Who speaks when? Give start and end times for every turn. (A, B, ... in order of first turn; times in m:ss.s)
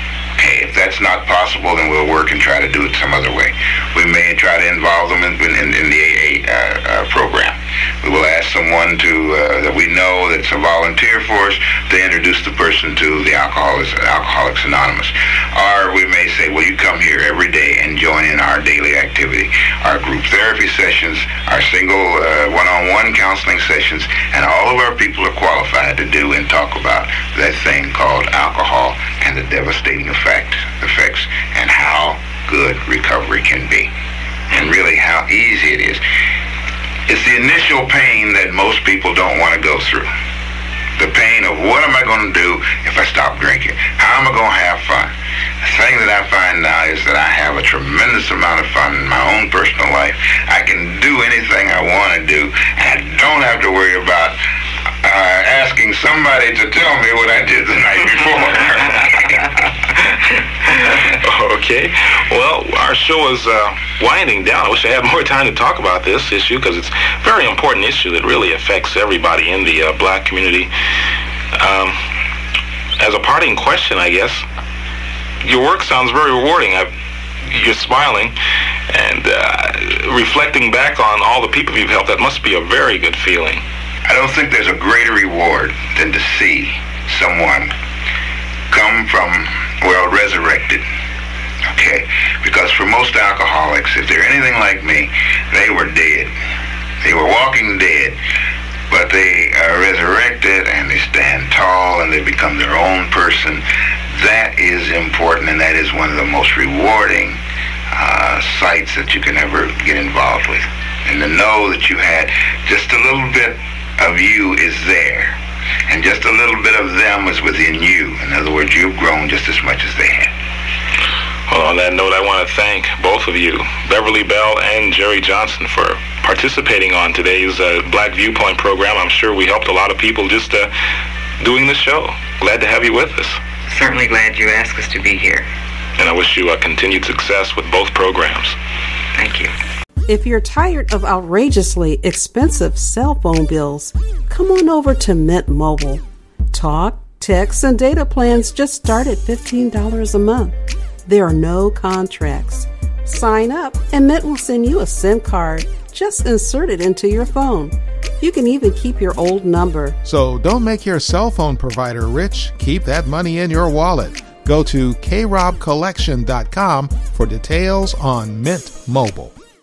0:00.4-0:33.9 A
0:34.5-0:36.0 A
0:37.1-0:40.1 A
0:41.0-0:54.4 A
0:55.0-0:59.5 A
1:00.9-1:10.7 B
1:11.5-1:12.0 B
1:13.0-1:14.4 B
1:15.4-1:16.9 B
1:17.4-1:18.3 B
1:18.9-1:23.6 B
1:24.0-1:27.7 A
1:28.7-1:30.8 A
1:31.7-1:36.3 A
1:37.0-1:38.2 A
1:38.9-1:43.6 A
1:44.1-1:47.4 A
1:47.9-1:55.4 A
1:55.9-2:00.3 A
2:01.5-2:10.7 B
2:11.4-2:13.4 B
2:13.7-2:15.5 C
2:16.0-2:18.6 B
2:19.2-2:19.5 C
2:20.1-2:30.5 D
2:31.0-2:40.0 D
2:40.0-2:49.3 E